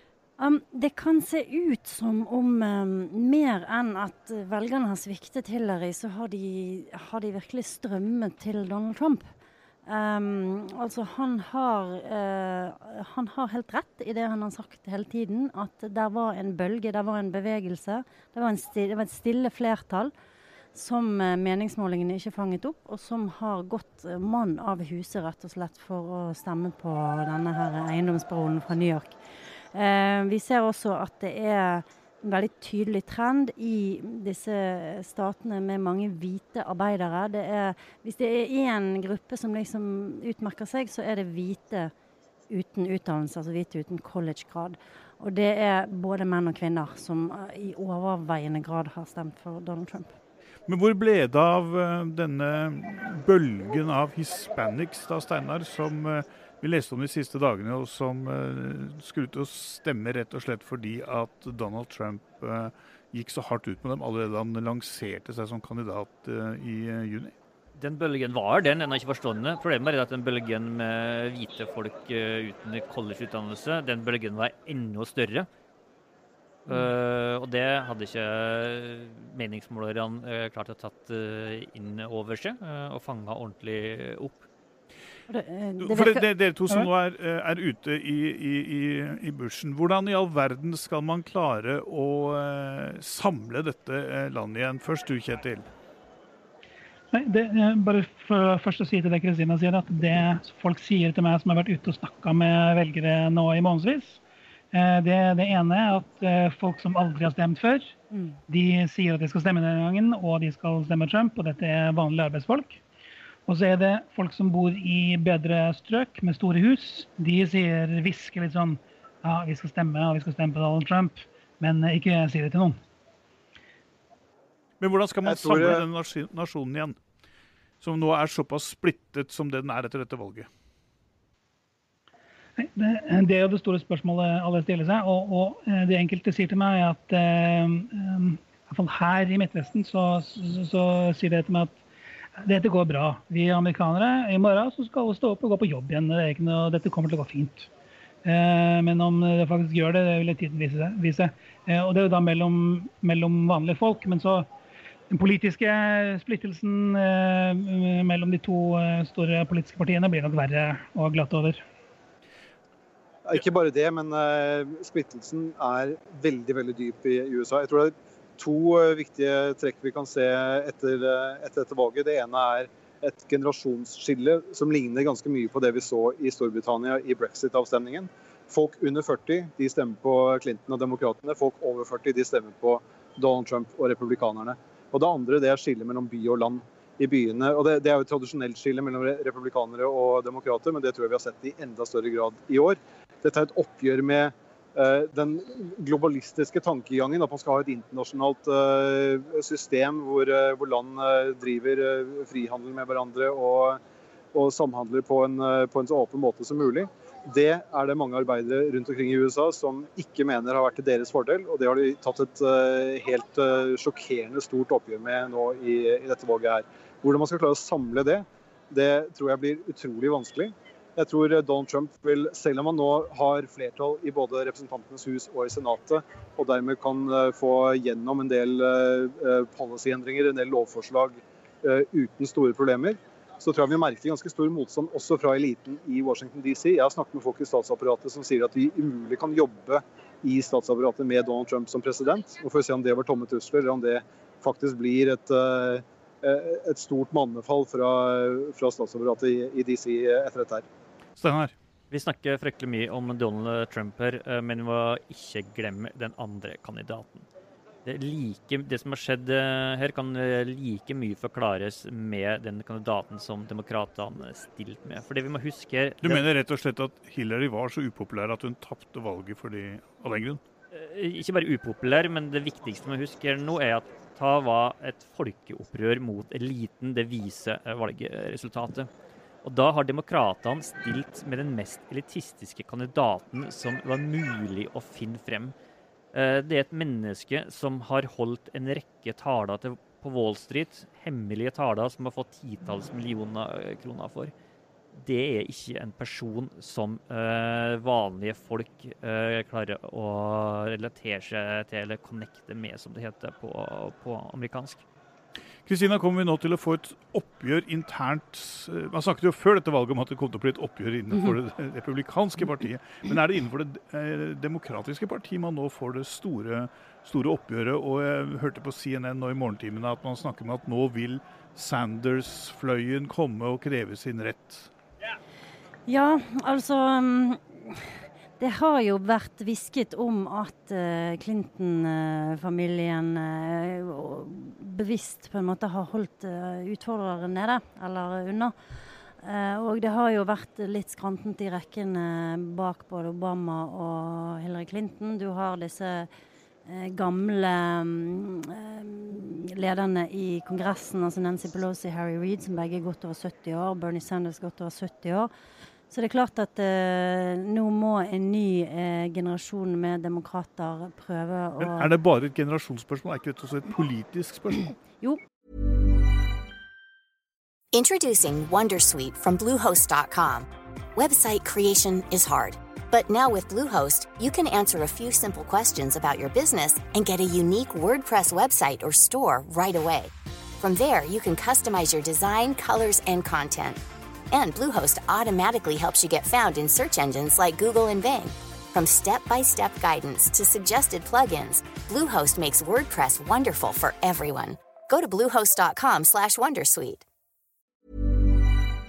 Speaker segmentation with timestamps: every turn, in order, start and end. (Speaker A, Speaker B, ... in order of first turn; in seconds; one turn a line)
Speaker A: 0.4-9.3
Speaker A: 9.8-20.1
Speaker A: 20.7-29.2
Speaker A: 29.7-41.9
Speaker A: 42.5-50.1
Speaker B: 50.7-67.3
Speaker C: 67.7-75.5
Speaker C: 76.7-84.5
Speaker A: 85.3-86.2
Speaker B: 85.8-95.7
Speaker D: 97.1-104.2
Speaker D: 104.7-108.0
Speaker D: 108.5-112.8
Speaker D: 113.5-122.8
Speaker B: 124.8-127.0
Speaker E: 125.2-125.8
Speaker B: 127.8-130.5
Speaker D: 132.6-141.8
Speaker D: 142.4-147.7
Speaker D: 148.2-154.5
Speaker D: 155.1-161.6
Speaker E: 163.2-203.8
Speaker E: 204.3-250.6
Speaker B: 251.2-251.5
Speaker C: 251.9-257.3
Speaker C: 257.8-266.2
Speaker B: 266.0-270.4
Speaker C: 270.7-278.9
Speaker C: 279.4-285.5
Speaker C: 286.1-294.3
Speaker C: 294.9-304.8
Speaker B: 305.6-324.7
Speaker A: 325.9-327.9
Speaker A: 328.4-338.5
Speaker A: 339.2-346.1
Speaker A: 346.6-355.3
Speaker A: 355.9-361.9
Speaker B: 361.6-364.7
Speaker F: 367.7-383.8
Speaker F: 384.3-397.0